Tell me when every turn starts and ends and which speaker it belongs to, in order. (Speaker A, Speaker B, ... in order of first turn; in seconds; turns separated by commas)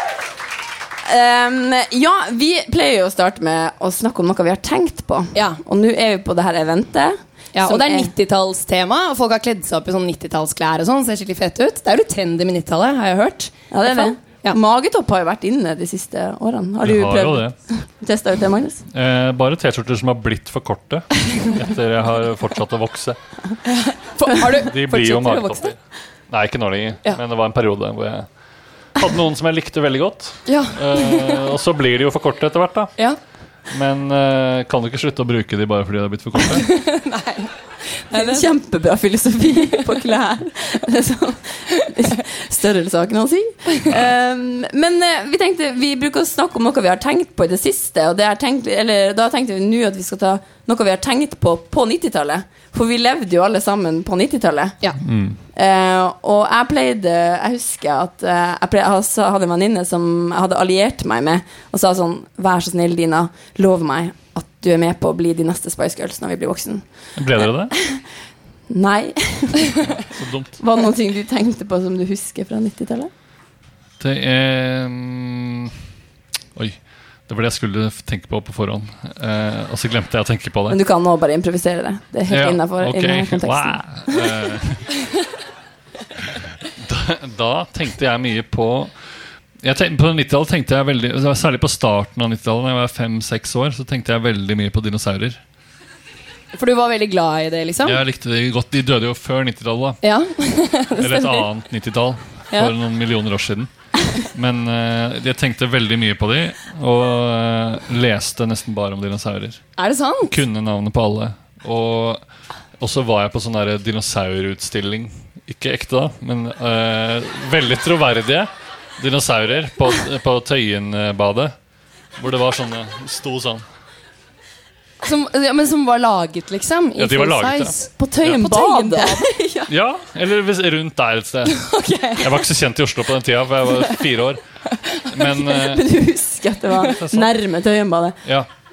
Speaker A: 1.0-8.1, Speaker B: 7.5-14.6, Speaker A: 13.7-18.8, Speaker C: 16.8-17.6, Speaker C: 18.9-23.2, Speaker B: 23.6-25.7, Speaker C: 24.6-25.7, Speaker C: 26.3-28.3, Speaker C: 28.9-32.9, Speaker B: 30.4-31.5, Speaker C: 33.7-36.7, Speaker B: 36.4-38.5, Speaker A: 38.1-54.8, Speaker B: 39.6-40.0, Speaker C: 55.0-55.4, Speaker A: 55.5-66.8, Speaker C: 67.2-67.7, Speaker A: 68.7-69.8, Speaker C: 69.8-70.5, Speaker A: 70.6-73.1, Speaker C: 74.0-75.7, Speaker C: 76.5-80.8, Speaker A: 80.7-83.8, Speaker C: 82.3-84.9, Speaker C: 86.8-88.9, Speaker C: 89.6-95.4, Speaker B: 96.5-98.0, Speaker C: 97.8-100.0, Speaker B: 100.0-101.5, Speaker C: 100.9-109.6, Speaker B: 109.8-110.4, Speaker C: 110.3-112.2, Speaker C: 112.8-121.5, Speaker C: 122.2-123.6, Speaker B: 125.0-127.9, Speaker C: 127.0-128.6, Speaker A: 127.9-129.7, Speaker B: 128.4-129.3, Speaker C: 129.7-131.6, Speaker B: 131.4-132.4, Speaker C: 132.2-134.4, Speaker B: 134.7-135.6, Speaker C: 135.0-135.9, Speaker A: 135.7-138.2, Speaker C: 136.8-137.3